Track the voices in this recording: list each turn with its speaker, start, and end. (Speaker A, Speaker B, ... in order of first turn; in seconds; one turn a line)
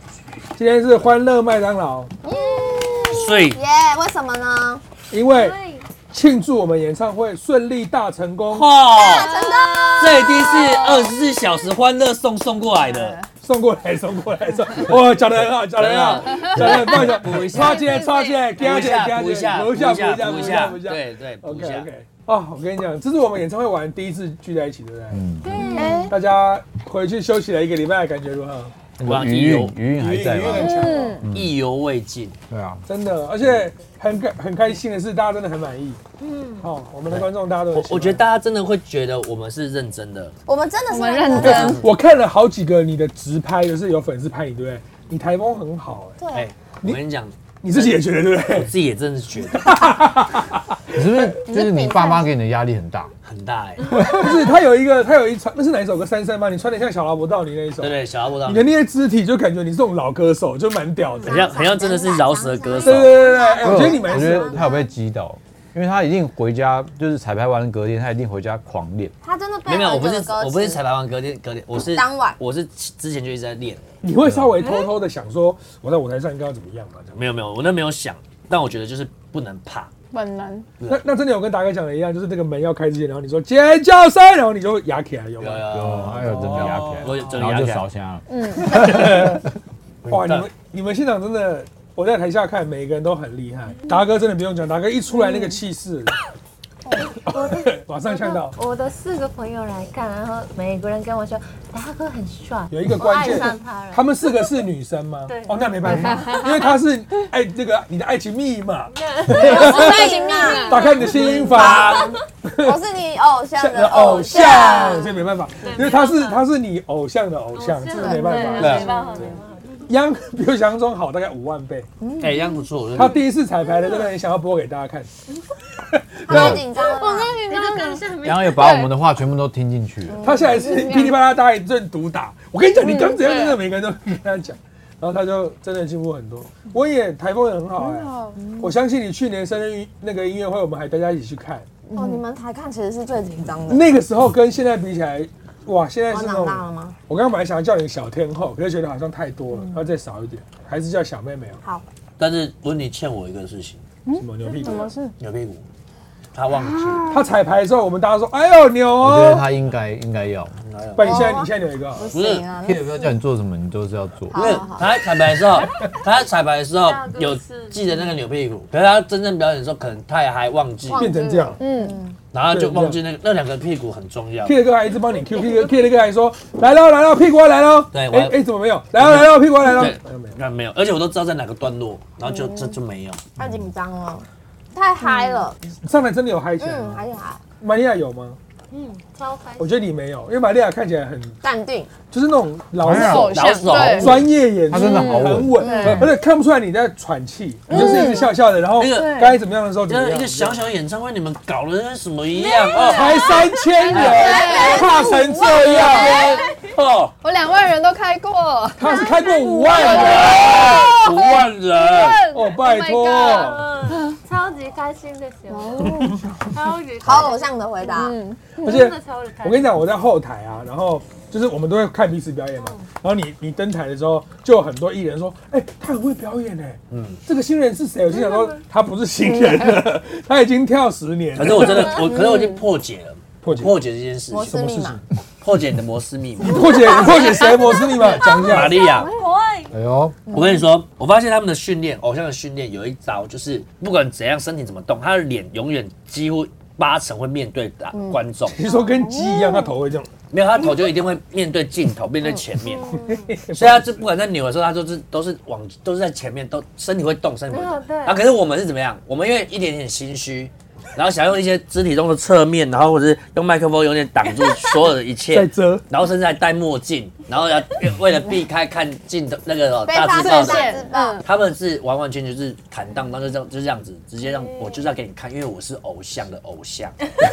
Speaker A: 0.6-2.1
Speaker B: 2.2-4.8
Speaker C: 3.1-3.6
Speaker A: 5.1-5.6
Speaker D: 5.2-5.9
Speaker A: 6.1-8.7
Speaker C: 8.5-9.4
Speaker B: 8.9-10.5
Speaker E: 9.1-11.1
Speaker C: 10.0-13.2
Speaker E: 12.8-13.2
Speaker A: 13.4-25.2
Speaker C: 15.7-18.0
Speaker E: 17.5-18.4
Speaker C: 18.6-21.9
Speaker F: 25.1-25.5
Speaker E: 25.4-26.1
Speaker D: 25.4-26.1
Speaker B: 25.6-26.1
Speaker A: 25.8-28.8
Speaker F: 29.0-31.5
Speaker C: 29.0-32.4
Speaker A: 30.3-31.2
Speaker E: 30.5-31.2
Speaker F: 32.5-32.8
Speaker A: 32.9-36.0
Speaker D: 36.2-36.7
Speaker A: 36.6-38.2
Speaker C: 37.1-40.3
Speaker B: 40.5-41.8
Speaker E: 40.9-41.8
Speaker C: 41.3-41.9
Speaker A: 41.4-46.2
Speaker B: 46.2-46.5
Speaker C: 46.3-49.8
Speaker A: 47.6-48.7
Speaker A: 49.5-51.4
Speaker F: 50.9-53.1
Speaker B: 51.5-52.2
Speaker E: 51.5-52.2
Speaker C: 53.2-54.1
Speaker D: 53.9-54.2
Speaker A: 53.9-61.4
Speaker C: 57.8-58.6
Speaker B: 61.2-64.9
Speaker C: 61.2-63.4
Speaker A: 62.8-64.7
Speaker F: 63.6-69.1
Speaker B: 69.2-70.8
Speaker C: 69.7-73.8
Speaker B: 71.9-72.4
Speaker A: 74.0-77.1
Speaker F: 74.2-74.6
Speaker D: 74.6-74.9
Speaker C: 77.1-79.9
Speaker E: 80.1-80.7
Speaker A: 80.8-87.5
Speaker C: 85.4-87.8
Speaker F: 85.7-88.8
Speaker E: 88.3-89.2
Speaker A: 88.6-89.4
Speaker C: 88.7-89.4
Speaker C: 90.0-90.5
Speaker A: 90.1-96.1
Speaker A: 97.1-98.6
Speaker D: 97.3-104.5
Speaker A: 102.7-110.1
Speaker D: 105.3-106.7
Speaker E: 105.9-106.4
Speaker D: 108.9-112.2
Speaker B: 109.4-115.2
Speaker E: 109.5-110.9
Speaker A: 110.6-112.8
Speaker C: 111.5-112.2
Speaker A: 113.5-119.3
Speaker D: 113.9-116.4
Speaker D: 117.5-119.9
Speaker B: 117.9-119.3
Speaker C: 118.6-118.8
Speaker A: 119.8-121.9
Speaker B: 122.0-122.4
Speaker C: 122.2-123.2
Speaker A: 122.9-125.1
Speaker A: 125.9-126.6
Speaker B: 126.2-127.4
Speaker F: 126.3-126.6
Speaker D: 126.8-128.9
Speaker E: 126.8-128.9
Speaker F: 128.2-130.2
Speaker B: 130.1-130.7
Speaker A: 130.2-141.7
Speaker E: 130.5-131.1
Speaker E: 132.8-133.6
Speaker E: 137.8-138.7
Speaker E: 141.9-142.2
Speaker B: 141.9-143.9
Speaker A: 143.7-151.6
Speaker B: 146.1-147.0
Speaker C: 152.2-153.8
Speaker E: 154.1-155.1
Speaker A: 154.1-154.9
Speaker C: 155.2-155.6
Speaker C: 156.3-157.1
Speaker E: 156.6-157.3
Speaker A: 157.1-159.5
Speaker F: 159.0-160.6
Speaker C: 160.6-161.2
Speaker A: 160.9-162.1
Speaker B: 161.0-163.2
Speaker C: 162.1-162.4
Speaker F: 162.6-164.6
Speaker B: 164.3-164.9
Speaker C: 164.3-171.1
Speaker D: 166.8-167.8
Speaker B: 170.8-172.2
Speaker A: 170.9-171.6
Speaker E: 171.6-172.0
Speaker C: 172.3-174.6
Speaker A: 172.5-173.0
Speaker A: 174.4-180.3
Speaker C: 177.9-178.4
Speaker C: 179.0-183.2
Speaker B: 182.2-182.8
Speaker F: 183.4-183.7
Speaker B: 183.4-185.6
Speaker E: 185.1-185.4
Speaker A: 185.8-187.0
Speaker B: 186.6-187.4
Speaker A: 187.6-188.4
Speaker D: 188.7-189.9
Speaker A: 189.6-191.4
Speaker B: 191.4-191.9
Speaker A: 192.1-200.7
Speaker F: 192.8-193.4
Speaker E: 192.9-196.1
Speaker C: 193.3-194.2
Speaker F: 194.7-196.1
Speaker E: 197.7-198.3
Speaker C: 198.8-199.2
Speaker D: 198.9-199.4
Speaker C: 199.8-203.1
Speaker D: 202.3-204.9
Speaker E: 202.9-206.4
Speaker A: 202.9-206.4
Speaker C: 203.9-204.4
Speaker B: 204.4-204.8
Speaker C: 205.4-207.1
Speaker D: 205.9-206.6
Speaker E: 207.2-214.1
Speaker A: 208.8-210.8
Speaker D: 209.8-210.3
Speaker C: 209.8-212.2
Speaker A: 212.3-213.7
Speaker D: 213.0-217.6
Speaker E: 215.5-216.5
Speaker B: 217.0-218.2
Speaker E: 217.8-218.7
Speaker D: 218.6-219.8
Speaker A: 218.6-232.1
Speaker D: 222.5-222.8
Speaker C: 226.9-227.2
Speaker D: 228.1-228.6
Speaker C: 231.3-236.7
Speaker D: 231.6-232.1
Speaker E: 231.9-232.6
Speaker A: 233.4-233.8
Speaker B: 234.3-235.0
Speaker D: 236.4-239.7
Speaker A: 236.4-238.8
Speaker C: 238.4-239.1
Speaker F: 239.7-240.2
Speaker C: 240.3-248.6
Speaker A: 248.5-250.1
Speaker E: 248.8-249.7
Speaker C: 250.3-252.9
Speaker D: 252.6-253.3
Speaker A: 253.1-254.0
Speaker C: 253.5-270.7
Speaker D: 257.5-258.2
Speaker A: 265.3-265.8
Speaker B: 269.9-271.2
Speaker E: 270.1-271.2
Speaker C: 271.2-277.0
Speaker D: 274.3-274.8